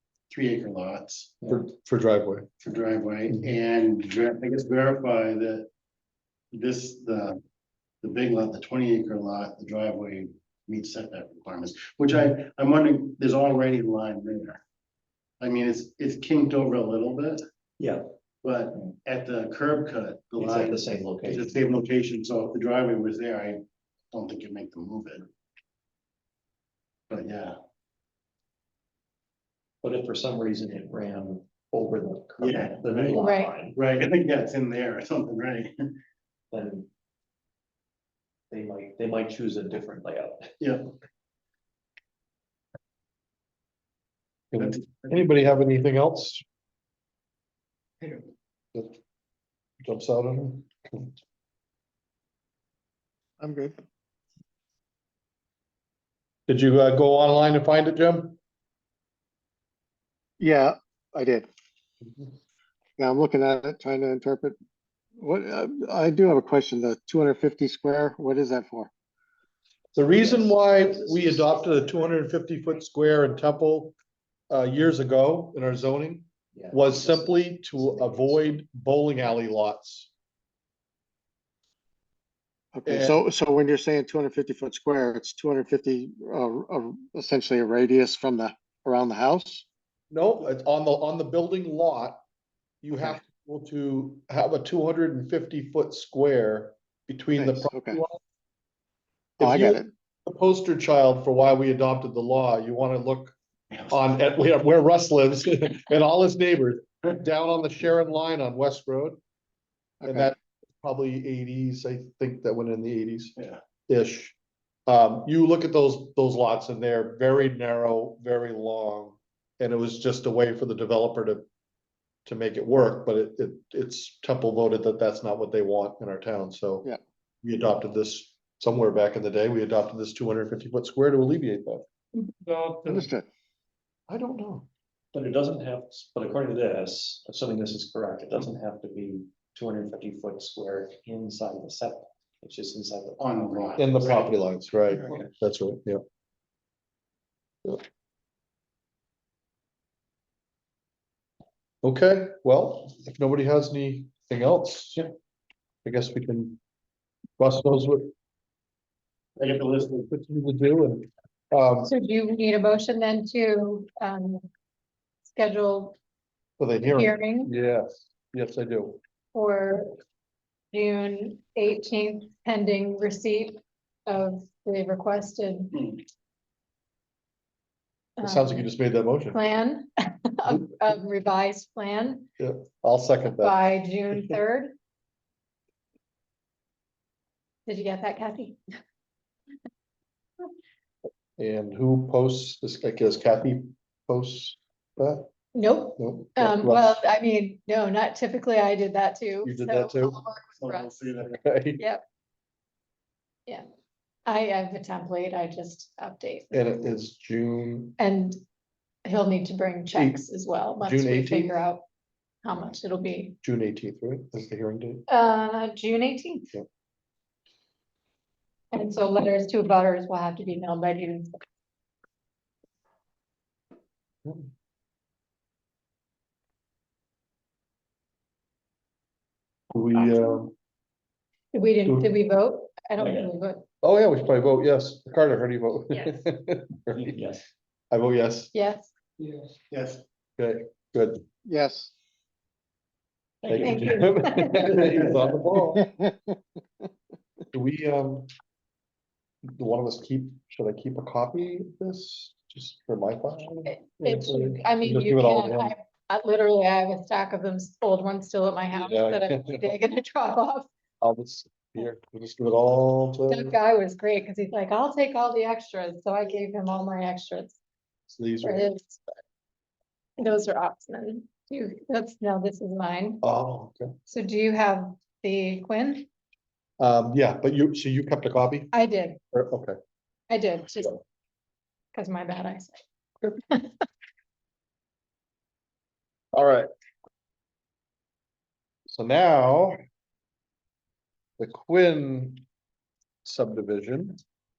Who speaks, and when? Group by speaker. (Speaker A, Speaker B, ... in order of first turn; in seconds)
Speaker A: 0.3-1.3, 2.6-5.6, 6.6-7.4, 8.0-14.6, 15.4-17.4, 18.4-23.6, 24.1-25.3, 27.1-27.5, 32.4-33.2, 33.8-35.7, 143.2-144.3, 159.4-160.1, 200.6-201.4, 239.7-240.0
Speaker B: 1.5-2.5, 44.5-46.4, 49.8-51.1, 56.5-58.4, 70.0-74.0, 74.5-80.1, 82.8-83.2, 90.1-92.2, 92.8-98.2, 99.4-103.3, 103.9-109.2, 110.0-113.3, 113.9-114.3, 114.9-121.4, 122.2-126.8, 127.4-131.8, 134.1-134.7, 143.8-146.0, 151.8-155.0, 155.8-156.6, 157.4-158.1, 160.1-161.9, 166.6-169.0, 178.2-179.4, 182.4-183.6, 191.4-195.3, 196.0-196.9, 199.4-200.2, 201.4-201.8, 206.5-208.0, 209.9-210.2, 210.8-211.6, 213.4-215.1, 229.7-230.5, 233.8-237.1, 237.9-238.5, 240.4-241.2, 243.5-245.8, 247.5-248.3, 249.6-255.7, 258.7-259.7, 261.0-263.6, 268.1-268.7, 273.2-273.9, 276.8-278.7, 279.3-279.8, 286.3-286.7, 288.9-289.8, 291.4-292.4, 293.2-294.2
Speaker C: 17.8-18.0, 20.4-21.6, 29.8-33.8, 36.5-36.9, 38.5-40.5, 69.9-72.0, 76.5-78.5, 135.1-144.1, 144.9-145.3, 233.0-233.3, 236.9-237.4, 243.4-243.9, 244.6-245.2
Speaker D: 33.1-33.5, 161.8-164.4, 165.3-166.0, 166.9-167.5, 169.3-169.9, 170.7-176.0, 178.2-178.7, 179.3-182.3, 183.3-184.7, 187.7-188.6, 195.5-202.0, 204.2-206.6, 208.0-208.4, 209.1-211.8, 212.4-213.3, 215.1-216.5, 218.7-221.3, 231.5-233.6, 235.9-236.2, 238.5-238.9, 243.6-244.8, 253.7-260.7, 263.3-267.6, 268.4-269.0, 270.2-273.2, 274.1-276.1, 278.7-279.2, 280.3-281.0, 281.9-282.8
Speaker E: 53.4-53.7, 60.4-61.5, 63.0-64.5, 65.2-68.9, 82.7-89.7, 97.4-98.0, 99.4-99.9, 110.0-110.3, 132.8-133.2, 241.4-241.9, 245.7-246.3